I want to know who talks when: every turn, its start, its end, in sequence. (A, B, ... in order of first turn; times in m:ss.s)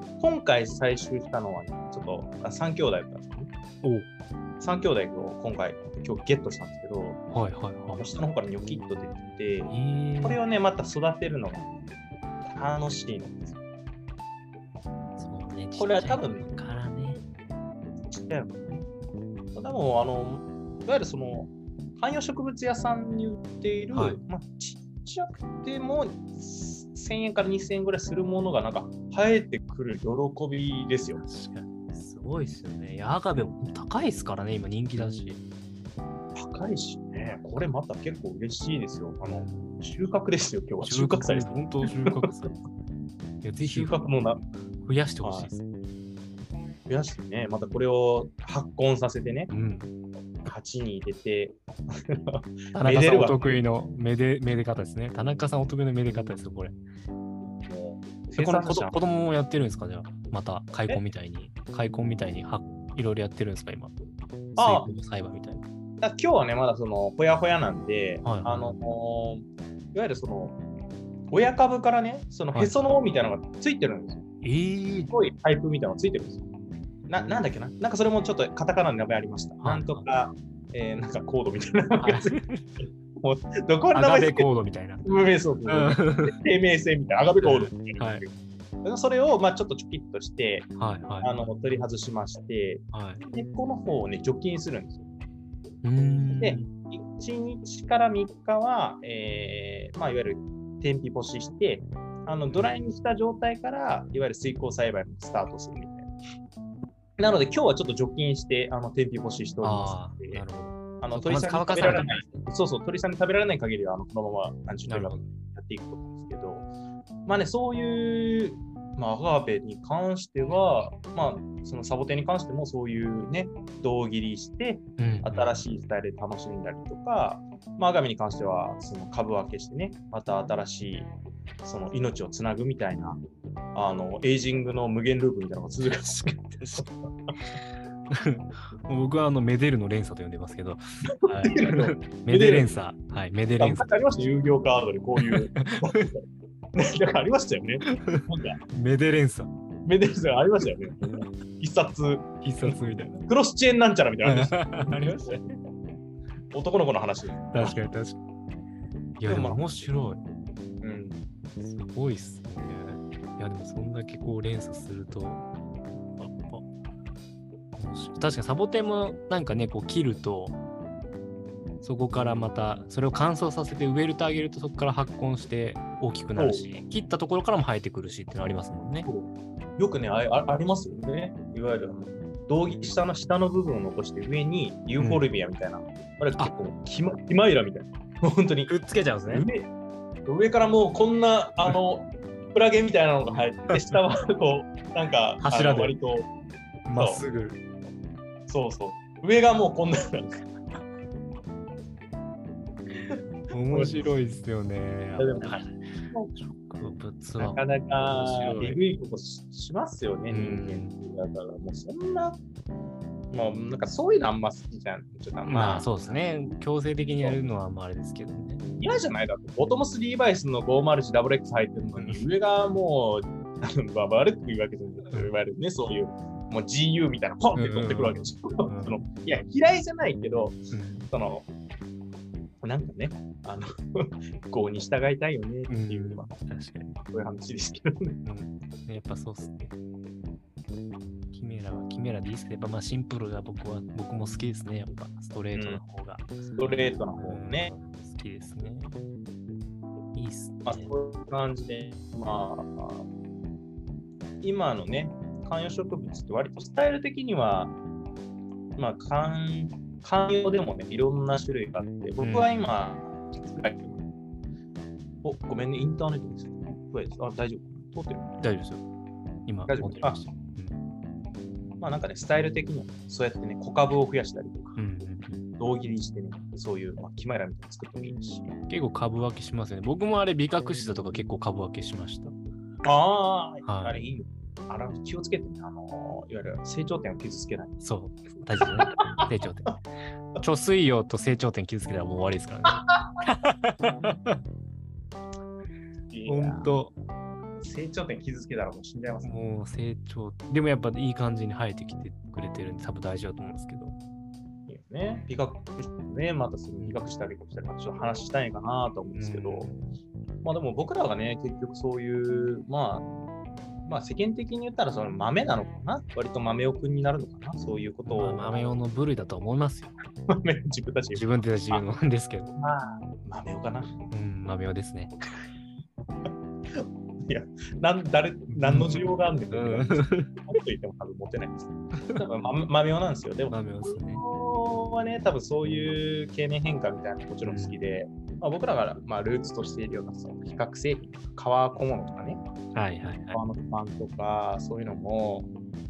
0:00.2-0:03.5 A
0:04.6-0:07.2 A
0:07.3-0:08.0 B
0:08.0-0:11.7 A
0:09.7-0:10.4 B
0:12.4-0:13.6 A
0:15.2-0:17.2 B
0:15.8-0:16.5 A
0:18.1-0:18.8 A
0:19.5-0:31.2 A
0:23.9-0:24.2 B
0:31.2-0:35.4 B
0:36.3-0:42.2 A
0:39.2-0:39.8 B
0:40.8-0:42.5 B
0:43.4-0:44.0 B
0:43.6-0:44.4 A
0:44.8-0:45.6 B
0:45.2-0:45.5 A
0:46.9-0:49.5 A
0:49.5-0:49.9 B
0:50.4-0:53.6 A
0:52.7-0:56.7 B
0:57.6-0:59.0 A
0:58.4-1:03.9 B
1:04.6-1:05.6 B
1:04.6-1:04.9 A
1:06.0-1:10.6 A
1:08.2-1:08.8 B
1:11.3-1:14.2 A
1:12.5-1:12.9 B
1:14.4-1:15.1 B
1:15.1-1:16.4 A
1:17.1-1:22.4 A
1:19.6-1:20.0 B
1:22.0-1:22.7 B
1:23.2-1:24.5 A
1:23.9-1:25.0 B
1:25.0-1:28.3 A
1:25.7-1:26.4 B
1:27.4-1:28.2 B
1:28.8-1:30.7 A
1:30.8-1:31.3 B
1:31.2-1:35.0 A
1:32.9-1:33.2 B
1:35.8-1:36.7 B
1:36.3-1:46.1 A
1:47.2-1:50.4 A
1:49.6-1:52.4 B
1:51.0-1:56.7 A
1:54.9-1:55.2 B
1:57.3-2:11.1 A
2:05.0-2:05.6 B
2:11.6-2:13.2 A
2:13.7-2:17.3 A
2:18.1-2:23.9 B
2:21.1-2:22.7 A
2:23.6-2:26.2 A
2:25.2-2:26.0 B
2:26.7-2:28.6 A
2:27.8-2:29.5 B
2:29.8-2:35.4 A
2:32.4-2:33.2 B
2:34.2-2:35.5 B
2:36.5-2:37.8 A
2:37.5-2:38.2 B
2:39.2-2:40.2 B
2:39.3-2:39.8 A
2:40.8-2:41.2 A
2:41.6-2:45.4 B
2:46.2-2:46.6 B
2:47.8-2:50.6 B
2:51.8-2:59.1 B
2:56.4-2:56.7 A
2:59.0-3:08.7 A
3:05.0-3:05.2 B
3:08.7-3:09.5 B
3:09.3-3:09.7 A
3:10.2-3:16.3 A
3:15.4-3:15.9 B
3:16.9-3:17.6 B
3:16.9-3:17.2 A
3:18.5-3:20.5 A
3:23.5-3:28.8 B
3:23.7-3:24.0 A
3:25.2-3:25.6 A
3:26.1-3:26.4 A
3:27.4-3:32.4 A
3:30.3-3:30.9 B
3:33.3-3:36.1 A
3:35.4-3:38.8 B
3:37.2-3:37.4 A
3:38.8-3:51.4 A
3:42.0-3:42.2 B
3:47.5-3:49.4 B
3:50.7-3:51.1 B
3:52.6-3:56.3 A
3:55.7-3:56.9 B
3:57.1-3:58.2 A
3:58.2-3:59.7 B
4:01.3-4:06.4 B
4:05.5-4:05.8 A
4:06.6-4:07.7 A
4:07.2-4:09.0 B
4:10.1-4:10.9 B
4:10.6-4:13.0 A
4:14.4-4:17.7 A
4:18.8-4:24.0 A
4:22.2-4:22.5 B
4:25.2-4:28.3 A
4:28.4-4:28.8 B
4:29.5-4:30.8 B
4:29.7-4:30.3 A
4:31.8-4:34.8 A
4:34.8-4:35.5 B
4:35.6-4:38.5 A
4:38.7-4:42.3 B
4:42.8-4:47.8 A
4:43.6-4:44.0 B
4:47.8-4:49.8 B
4:48.8-4:49.3 A
4:50.4-4:54.4 B
4:56.1-4:56.7 A
4:56.2-4:56.9 B
4:57.6-4:59.4 A
4:59.2-5:03.9 B
5:04.7-5:09.7 A
5:06.8-5:07.0 B
5:09.1-5:09.9 B
5:10.4-5:13.1 A
5:13.8-5:18.7 A
5:18.0-5:19.9 B
5:20.3-5:21.8 A
5:21.1-5:22.5 B
5:22.6-5:23.9 A
5:24.1-5:25.1 B
5:26.7-5:42.4 A
5:28.6-5:30.4 B
5:32.0-5:32.2 B
5:33.5-5:34.2 B
5:37.4-5:37.8 B
5:42.7-5:43.4 B
5:43.3-5:45.5 A